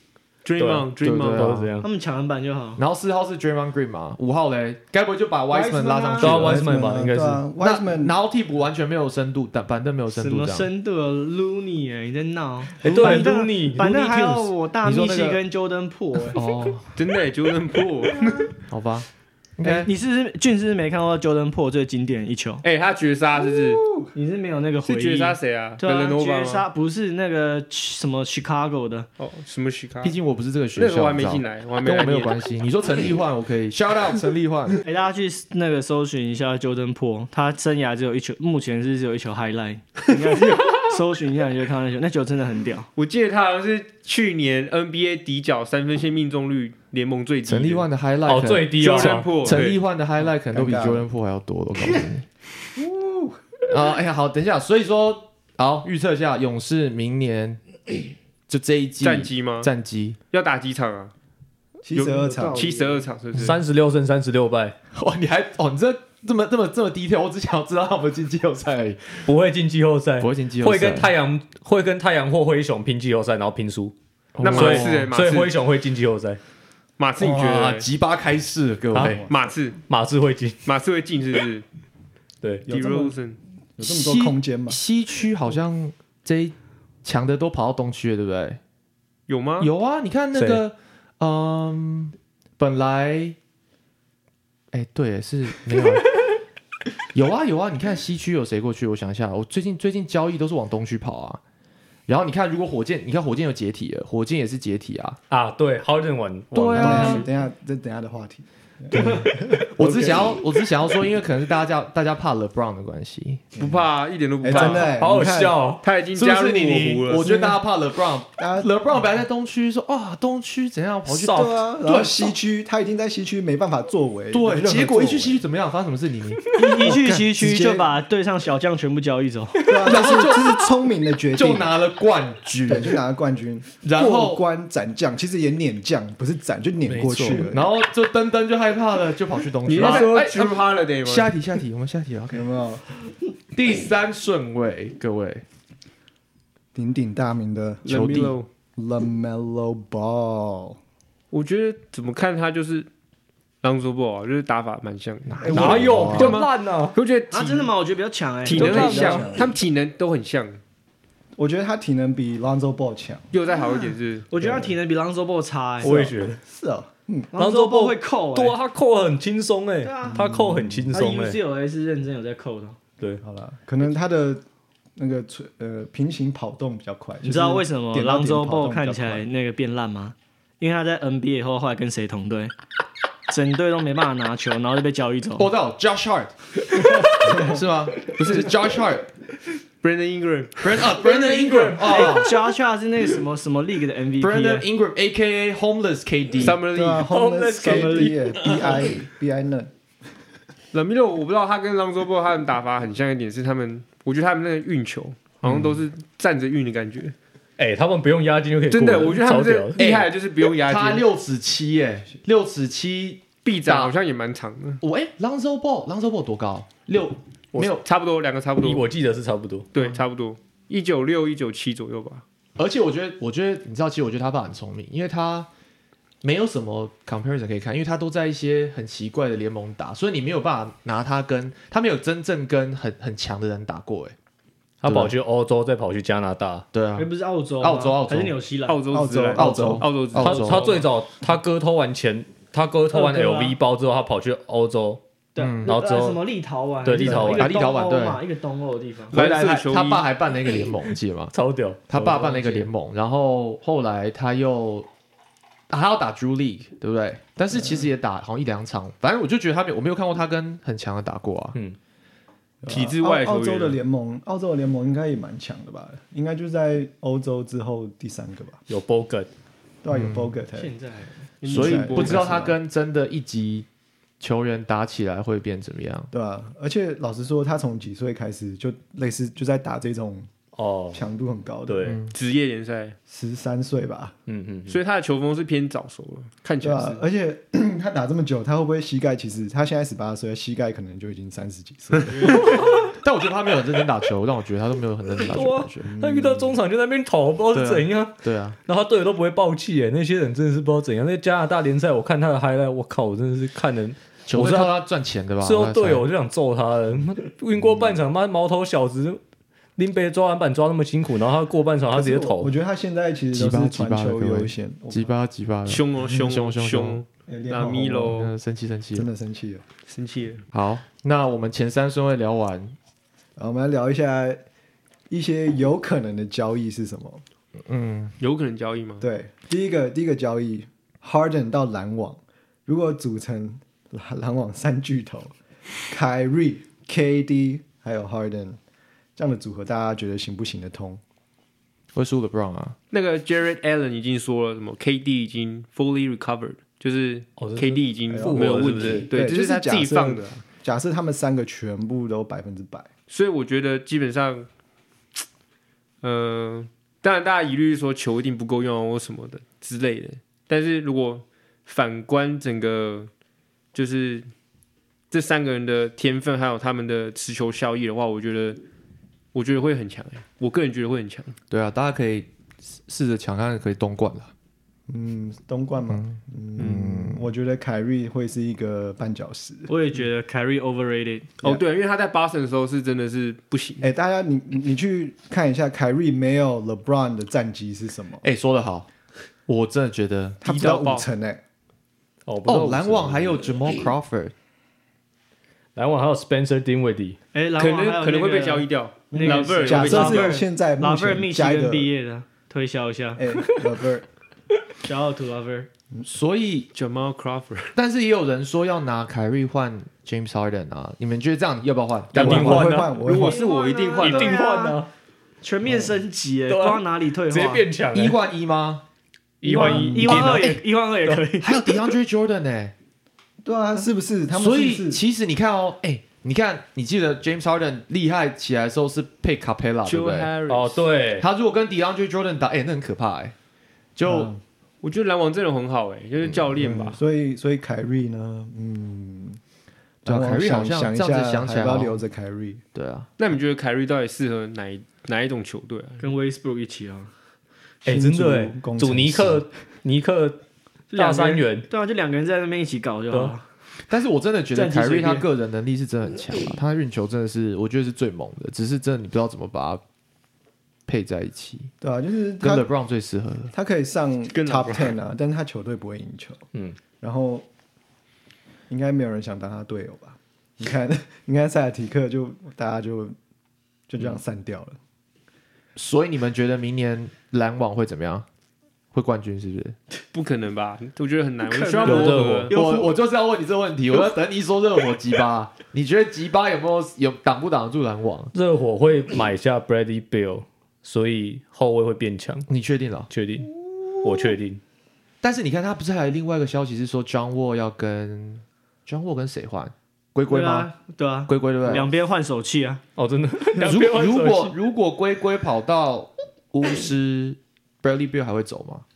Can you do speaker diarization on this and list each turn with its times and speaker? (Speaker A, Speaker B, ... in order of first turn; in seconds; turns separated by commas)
Speaker A: 0.5-1.5, Speaker B: 0.6-1.9, Speaker C: 1.0-1.7, Speaker D: 1.8-2.8, Speaker C: 2.8-6.7, Speaker D: 5.5-6.4, Speaker B: 6.2-7.5, Speaker E: 6.2-8.1, Speaker C: 7.6-10.7, Speaker D: 10.1-16.4, Speaker B: 12.8-14.5, Speaker C: 14.8-15.4, Speaker C: 16.3-16.9, Speaker A: 16.9-18.5, Speaker C: 18.7-19.9, Speaker D: 19.6-22.6, Speaker A: 22.6-23.8, Speaker E: 23.8-24.1, Speaker D: 24.1-29.1, Speaker A: 24.9-26.7, Speaker A: 29.2-30.2, Speaker C: 30.0-34.8, Speaker A: 30.8-32.3, Speaker D: 34.9-42.9, Speaker A: 43.0-47.9, Speaker C: 47.5-52.3, Speaker B: 48.3-49.6, Speaker A: 48.8-49.8, Speaker E: 50.2-51.1, Speaker E: 52.8-53.4, Speaker C: 53.7-57.6, Speaker C: 58.5-60.2, Speaker A: 59.0-59.7, Speaker A: 60.3-61.1, Speaker E: 61.8-62.7, Speaker A: 61.9-63.6, Speaker D: 62.2-63.0, Speaker B: 63.4-64.8, Speaker C: 64.9-69.3, Speaker B: 69.3-76.4, Speaker C: 70.2-71.1, Speaker C: 74.3-75.1, Speaker A: 74.4-75.5, Speaker A: 77.0-77.9, Speaker C: 77.2-79.2, Speaker B: 78.9-79.2, Speaker E: 79.0-79.3, Speaker A: 79.3-79.8, Speaker B: 79.9-80.6, Speaker A: 80.7-81.7, Speaker E: 82.7-83.2, Speaker A: 82.7-83.4, Speaker E: 83.8-84.8, Speaker C: 83.8-88.6, Speaker A: 89.3-89.7, Speaker C: 89.6-93.4, Speaker B: 90.3-90.6, Speaker C: 94.7-96.2, Speaker C: 97.1-101.4, Speaker C: 102.1-105.2, Speaker B: 105.3-107.3, Speaker C: 106.5-107.3, Speaker E: 106.8-109.7, Speaker B: 108.9-110.4, Speaker C: 109.0-113.6, Speaker A: 113.6-114.9, Speaker E: 114.4-115.6, Speaker B: 114.5-115.8, Speaker A: 115.8-117.3, Speaker C: 116.2-122.3, Speaker E: 117.2-117.6, Speaker E: 118.4-118.7, Speaker B: 121.1-121.5, Speaker E: 121.2-125.4, Speaker C: 124.3-126.4, Speaker D: 126.5-129.7, Speaker E: 126.7-128.0, Speaker E: 129.7-131.7, Speaker C: 129.8-130.6, Speaker C: 131.3-133.0, Speaker E: 132.7-137.7, Speaker C: 133.8-134.4, Speaker B: 136.9-137.5, Speaker C: 136.9-142.4, Speaker A: 139.7-141.3, Speaker E: 139.7-140.1, Speaker E: 142.3-142.8, Speaker C: 143.5-145.4, Speaker E: 146.8-150.8, Speaker A: 147.8-148.5, Speaker C: 147.9-148.3, Speaker A: 151.3-152.9, Speaker A: 153.6-157.7, Speaker C: 155.3-156.4, Speaker E: 155.4-156.3, Speaker B: 155.5-157.0, Speaker D: 157.3-159.2, Speaker A: 158.4-160.6, Speaker B: 158.5-159.4, Speaker E: 158.6-159.5, Speaker E: 161.4-163.3, Speaker A: 163.3-164.3, Speaker D: 164.3-166.2, Speaker E: 164.4-164.7, Speaker B: 165.8-166.4, Speaker E: 165.9-167.3, Speaker D: 167.3-168.6, Speaker B: 167.3-171.4, Speaker D: 169.8-170.3, Speaker E: 170.1-170.9, Speaker D: 170.9-172.8, Speaker E: 173.2-174.4, Speaker E: 175.0-179.3, Speaker D: 177.2-182.5, Speaker D: 183.3-185.5, Speaker C: 185.4-189.1, Speaker E: 187.2-187.6, Speaker A: 188.0-188.6, Speaker A: 189.8-190.9, Speaker C: 190.6-192.3, Speaker D: 191.0-194.7, Speaker C: 194.2-196.6, Speaker A: 196.4-197.1, Speaker E: 196.7-199.7, Speaker B: 197.1-198.8, Speaker D: 197.6-198.2, Speaker A: 200.7-207.2, Speaker C: 205.4-205.8, Speaker B: 207.6-209.8, Speaker A: 208.7-211.1, Speaker C: 209.8-213.9, Speaker A: 213.4-214.8, Speaker C: 214.8-217.8, Speaker A: 217.8-218.8, Speaker B: 218.6-219.7, Speaker A: 219.7-222.2, Speaker C: 222.6-225.5, Speaker C: 226.2-234.2, Speaker B: 234.8-236.7, Speaker C: 234.8-235.2, Speaker C: 236.7-238.4, Speaker D: 237.0-238.8, Speaker A: 238.7-240.8, Speaker E: 238.9-239.9, Speaker C: 239.3-240.8, Speaker B: 240.2-245.0, Speaker D: 242.9-243.6, Speaker D: 245.3-249.2, Speaker C: 245.4-245.8, Speaker B: 245.6-246.2, Speaker B: 246.8-247.6, Speaker C: 247.1-248.2, Speaker A: 249.1-250.1, Speaker C: 249.1-251.3, Speaker B: 251.3-252.7, Speaker C: 251.9-254.9, Speaker C: 255.7-261.6, Speaker E: 257.5-257.9, Speaker E: 262.6-268.6, Speaker A: 262.7-263.8, Speaker B: 268.7-269.3, Speaker E: 269.8-270.7, Speaker C: 269.9-270.3, Speaker D: 270.5-271.3, Speaker A: 271.4-272.5, Speaker E: 271.4-272.6, Speaker C: 271.5-273.7, Speaker C: 274.2-276.1, Speaker E: 276.1-280.3, Speaker B: 280.6-281.0, Speaker E: 280.9-282.0, Speaker B: 281.7-282.0, Speaker C: 281.8-282.1, Speaker A: 282.1-283.0, Speaker E: 283.1-284.1, Speaker B: 284.3-284.8, Speaker A: 284.7-287.0, Speaker E: 286.6-292.5, Speaker B: 292.4-292.7, Speaker C: 292.9-295.9, Speaker B: 295.2-304.8, Speaker E: 295.9-296.6, Speaker C: 297.5-298.6, Speaker C: 304.3-306.1, Speaker B: 305.4-309.2, Speaker B: 309.8-312.5, Speaker E: 311.9-315.2, Speaker C: 313.3-317.0, Speaker A: 315.7-318.3, Speaker E: 317.3-318.3, Speaker C: 318.1-319.1, Speaker E: 318.9-319.6, Speaker A: 319.9-320.4, Speaker C: 320.5-322.8, Speaker E: 323.4-324.4, Speaker E: 325.1-327.2, Speaker C: 327.6-328.1, Speaker A: 328.2-329.1, Speaker E: 329.0-335.3, Speaker E: 335.9-338.6, Speaker E: 339.2-341.0, Speaker C: 341.9-342.8, Speaker A: 342.9-350.4, Speaker B: 347.4-349.1, Speaker E: 348.1-352.9, Speaker A: 353.1-354.5, Speaker A: 356.0-363.1, Speaker A: 363.7-364.3, Speaker A: 365.1-368.6, Speaker A: 369.3-371.4, Speaker C: 371.5-374.3, Speaker E: 374.9-379.7, Speaker C: 375.9-377.2, Speaker D: 379.7-381.3, Speaker A: 381.4-383.9, Speaker E: 383.8-388.2, Speaker C: 388.2-388.9, Speaker C: 389.5-390.4, Speaker E: 390.4-391.4, Speaker A: 390.4-391.1, Speaker B: 392.3-393.5, Speaker C: 392.4-394.3, Speaker B: 395.8-397.2, Speaker D: 397.3-403.2, Speaker A: 397.6-400.4, Speaker E: 399.1-401.9, Speaker E: 403.2-404.1, Speaker D: 404.8-405.7, Speaker C: 406.1-406.7, Speaker A: 406.8-407.7, Speaker C: 407.8-412.8, Speaker B: 412.1-413.0, Speaker E: 412.1-413.4, Speaker A: 412.5-414.4, Speaker D: 413.1-414.8, Speaker B: 414.0-414.9, Speaker D: 415.4-417.7, Speaker B: 416.5-418.2, Speaker C: 417.9-418.8, Speaker B: 419.4-421.3, Speaker D: 419.4-421.6, Speaker E: 419.6-420.3, Speaker C: 421.4-422.7, Speaker E: 423.4-425.0, Speaker C: 424.3-430.3, Speaker A: 429.9-430.8, Speaker B: 430.5-431.3, Speaker C: 431.2-433.4, Speaker C: 434.0-434.3, Speaker E: 434.0-434.4, Speaker A: 434.8-437.0, Speaker E: 436.6-439.4, Speaker C: 440.1-442.0, Speaker E: 440.1-442.6, Speaker C: 442.7-443.1, Speaker A: 443.2-446.1, Speaker D: 446.0-447.1, Speaker E: 447.9-449.5, Speaker B: 447.9-450.4, Speaker D: 450.9-453.4, Speaker B: 450.9-451.7, Speaker C: 453.9-459.8, Speaker D: 454.5-455.3, Speaker C: 460.9-461.7, Speaker E: 461.8-462.7, Speaker C: 462.4-463.5, Speaker E: 463.5-466.5, Speaker A: 464.3-464.9, Speaker E: 467.0-467.5, Speaker E: 468.7-473.2, Speaker E: 473.9-474.8, Speaker C: 475.8-478.3, Speaker C: 478.9-479.8, Speaker A: 480.1-482.6, Speaker D: 481.5-482.9, Speaker B: 481.8-482.5, Speaker C: 482.5-488.3, Speaker B: 488.3-492.5, Speaker C: 492.5-493.1, Speaker B: 493.1-493.5, Speaker B: 494.0-494.6, Speaker C: 495.2-500.7, Speaker D: 500.3-502.8, Speaker C: 501.3-501.9, Speaker B: 503.0-504.5, Speaker C: 503.6-508.9